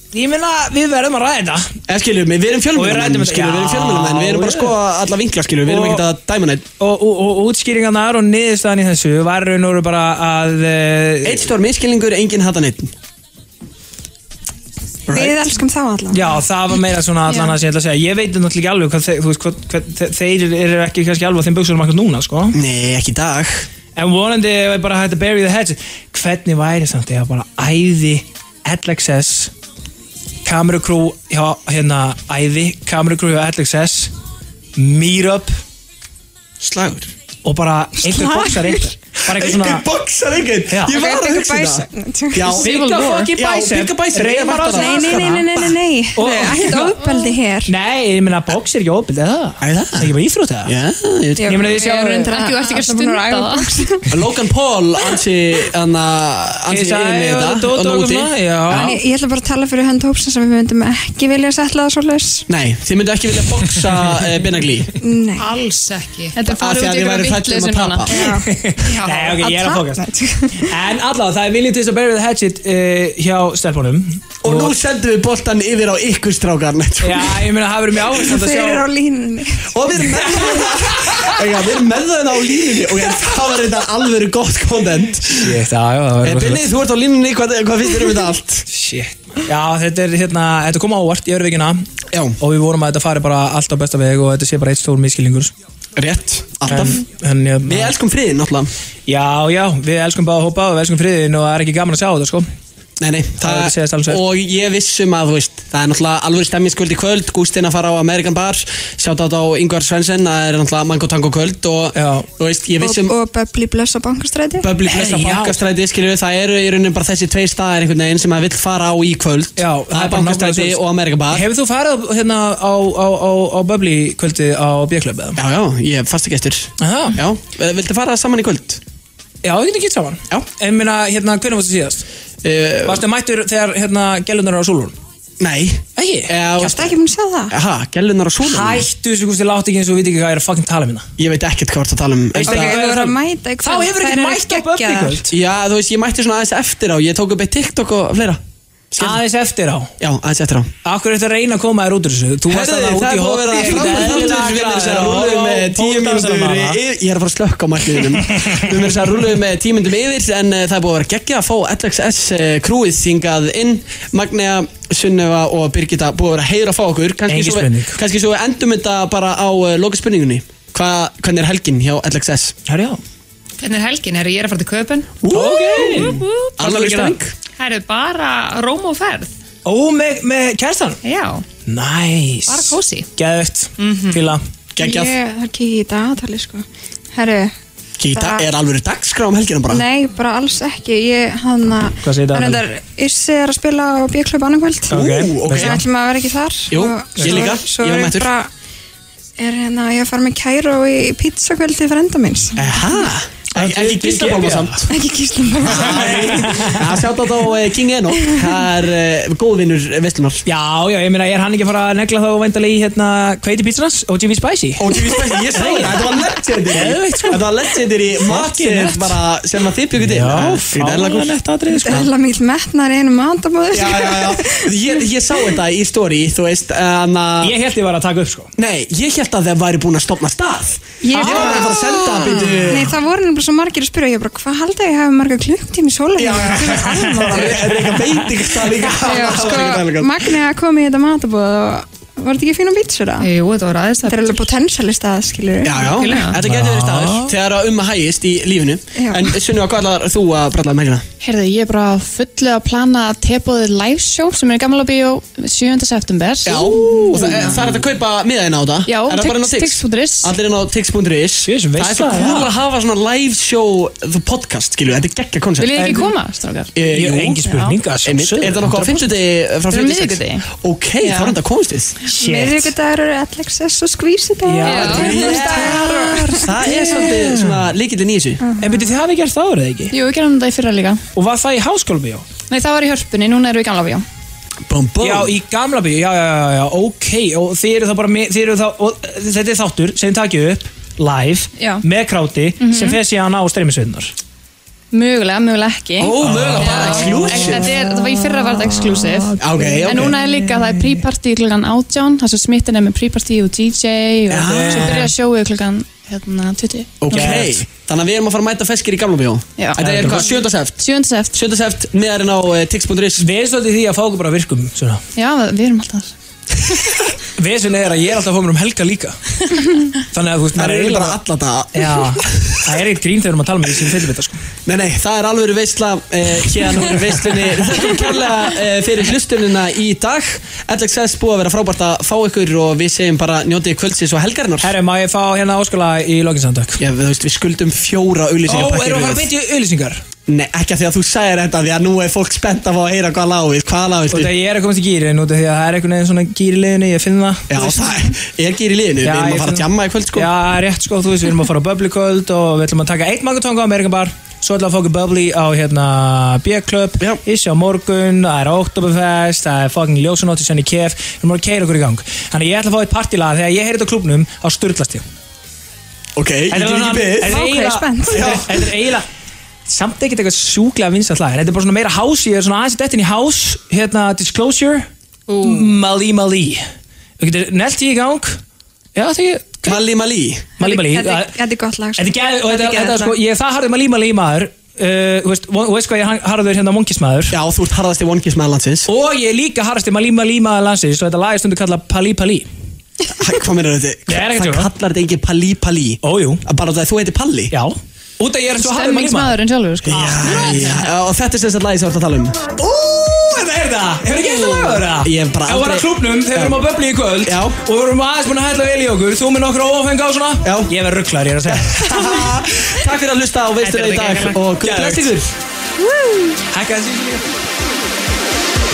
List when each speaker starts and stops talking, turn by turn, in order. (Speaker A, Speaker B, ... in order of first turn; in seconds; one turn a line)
Speaker A: 0.1-1.8
Speaker B: 1.9-6.6
Speaker A: 2.7-4.8
Speaker A: 5.7-6.0
Speaker A: 6.8-11.5
Speaker B: 11.2-12.9
Speaker B: 15.1-15.5
Speaker C: 15.1-16.3
Speaker A: 16.1-22.6
Speaker D: 17.3-17.5
Speaker B: 22.5-23.7
Speaker A: 23.9-29.5
Speaker A: 30.4-34.1
Speaker A: 34.8-35.5
Speaker B: 36.6-37.1
Speaker A: 37.4-39.8
Speaker C: 38.0-38.9
Speaker B: 39.2-45.8
Speaker A: 40.7-41.0
Speaker C: 40.9-42.6
Speaker A: 42.6-45.5
Speaker D: 42.8-43.3
Speaker C: 44.7-47.7
Speaker A: 46.1-47.1
Speaker D: 47.0-47.3
Speaker A: 47.7-50.7
Speaker B: 49.6-50.1
Speaker B: 50.6-51.6
Speaker C: 51.4-54.1
Speaker A: 51.4-52.3
Speaker D: 52.3-53.7
Speaker B: 54.1-59.0
Speaker A: 56.7-59.0
Speaker C: 58.7-62.5
Speaker B: 62.5-64.9
Speaker C: 65.0-65.5
Speaker E: 65.4-66.4
Speaker D: 66.3-68.1
Speaker B: 66.5-68.1
Speaker C: 68.1-68.5
Speaker A: 68.2-70.0
Speaker E: 68.8-69.4
Speaker C: 69.3-70.7
Speaker A: 70.6-74.8
Speaker B: 74.4-77.4
Speaker A: 77.0-78.8
Speaker C: 78.1-80.5
Speaker B: 79.7-85.6
Speaker A: 80.0-81.1
Speaker A: 85.2-86.7
Speaker B: 86.2-88.6
Speaker A: 88.7-91.8
Speaker B: 92.1-92.4
Speaker A: 92.4-95.5
Speaker B: 96.0-97.0
Speaker A: 96.7-97.9
Speaker B: 97.7-98.7
Speaker A: 99.1-102.5
Speaker B: 103.0-113.1
Speaker A: 103.4-104.2
Speaker A: 111.9-112.3
Speaker C: 112.8-114.8
Speaker B: 114.6-121.5
Speaker A: 114.8-115.6
Speaker A: 119.6-125.4
Speaker B: 125.3-128.8
Speaker A: 126.8-127.2
Speaker A: 129.4-132.0
Speaker B: 132.4-133.0
Speaker A: 132.8-134.9
Speaker B: 135.4-136.9
Speaker A: 135.9-136.7
Speaker C: 136.6-137.5
Speaker B: 137.5-138.9
Speaker A: 138.4-141.1
Speaker B: 141.2-142.8
Speaker A: 142.4-145.3
Speaker C: 142.4-145.2
Speaker B: 145.3-149.2
Speaker A: 149.0-149.9
Speaker B: 150.0-150.7
Speaker A: 150.8-156.8
Speaker B: 152.5-172.6
Speaker A: 158.3-158.6
Speaker A: 167.3-168.0
Speaker A: 172.7-173.0
Speaker E: 173.6-175.2
Speaker B: 175.2-177.3
Speaker A: 175.3-177.2
Speaker E: 175.8-176.5
Speaker E: 177.6-179.3
Speaker A: 179.6-181.0
Speaker E: 181.0-181.4
Speaker A: 181.7-184.4
Speaker E: 182.5-183.1
Speaker E: 183.8-184.2
Speaker B: 184.7-185.2
Speaker C: 184.8-187.5
Speaker B: 188.0-189.8
Speaker C: 188.1-188.4
Speaker C: 189.7-194.9
Speaker A: 192.0-192.6
Speaker A: 194.9-195.8
Speaker B: 194.9-195.8
Speaker C: 195.5-198.5
Speaker B: 196.7-198.3
Speaker A: 197.2-197.5
Speaker C: 199.4-202.7
Speaker B: 202.6-204.9
Speaker A: 203.5-204.9
Speaker C: 204.9-206.5
Speaker B: 205.7-210.4
Speaker A: 205.7-207.0
Speaker C: 208.2-208.5
Speaker A: 210.4-216.2
Speaker B: 214.8-221.3
Speaker A: 216.7-217.4
Speaker A: 218.2-219.2
Speaker A: 220.0-222.1
Speaker C: 221.7-224.8
Speaker B: 223.7-227.6
Speaker A: 227.4-228.5
Speaker B: 228.6-232.9
Speaker C: 231.0-237.7
Speaker A: 231.1-232.7
Speaker B: 236.2-240.3
Speaker A: 236.7-238.7
Speaker C: 239.0-243.3
Speaker E: 243.2-244.4
Speaker C: 244.0-246.3
Speaker B: 245.6-251.1
Speaker E: 245.9-246.3
Speaker A: 246.4-247.3
Speaker C: 248.9-249.3
Speaker D: 251.2-257.6
Speaker B: 256.4-265.8
Speaker D: 258.9-260.4
Speaker A: 261.4-262.5
Speaker D: 265.6-266.7
Speaker A: 265.7-266.1
Speaker B: 266.8-267.4
Speaker A: 266.9-269.0
Speaker D: 267.4-267.8
Speaker B: 268.0-271.9
Speaker D: 269.7-270.4
Speaker D: 271.0-271.4
Speaker A: 272.1-272.7
Speaker C: 272.1-276.6
Speaker A: 274.4-277.7
Speaker B: 274.7-278.4
Speaker D: 274.8-275.1
Speaker C: 278.4-278.9
Speaker A: 278.6-279.9
Speaker D: 279.9-281.0
Speaker A: 281.1-282.3
Speaker D: 282.5-284.0
Speaker B: 284.7-285.3
Speaker A: 285.0-294.1
Speaker D: 291.6-291.8
Speaker D: 292.6-293.0
Speaker D: 294.9-307.5
Speaker B: 296.0-297.7
Speaker A: 296.2-297.9
Speaker E: 296.6-297.6
Speaker A: 298.8-301.0
Speaker B: 299.4-300.2
Speaker B: 304.3-305.0
Speaker A: 304.4-305.1
Speaker B: 307.0-310.8
Speaker A: 307.1-307.6
Speaker D: 309.6-310.2
Speaker A: 309.8-310.4
Speaker D: 310.8-311.4
Speaker B: 311.3-313.2
Speaker A: 313.2-315.0
Speaker D: 315.1-316.1
Speaker A: 317.4-319.2
Speaker A: 320.1-321.2
Speaker B: 320.5-322.8
Speaker A: 321.7-324.4
Speaker B: 324.6-334.7
Speaker A: 334.6-336.8
Speaker B: 336.8-339.3
Speaker A: 338.4-340.0
Speaker B: 340.3-344.3
Speaker A: 344.1-348.0
Speaker B: 347.5-350.3
Speaker A: 349.0-365.0
Speaker B: 366.1-367.4
Speaker A: 366.5-369.0
Speaker C: 367.2-368.3
Speaker B: 368.1-368.6
Speaker A: 369.7-374.9
Speaker E: 375.3-375.7
Speaker A: 375.4-376.6
Speaker A: 377.2-378.4
Speaker A: 378.9-379.8
Speaker B: 379.6-380.5
Speaker A: 380.6-381.4
Speaker C: 380.6-383.1
Speaker A: 382.0-387.4
Speaker B: 387.3-388.9
Speaker A: 388.9-392.5
Speaker B: 393.1-397.5
Speaker A: 394.1-394.7
Speaker A: 396.0-396.4
Speaker A: 397.5-399.4
Speaker D: 398.5-400.6
Speaker B: 399.9-402.5
Speaker A: 399.9-400.8
Speaker A: 402.6-412.2
Speaker B: 404.1-406.6
Speaker B: 407.2-407.6
Speaker B: 410.4-410.7
Speaker B: 411.4-415.3
Speaker E: 413.6-414.4
Speaker A: 414.5-415.1
Speaker C: 415.8-416.3
Speaker A: 416.5-417.2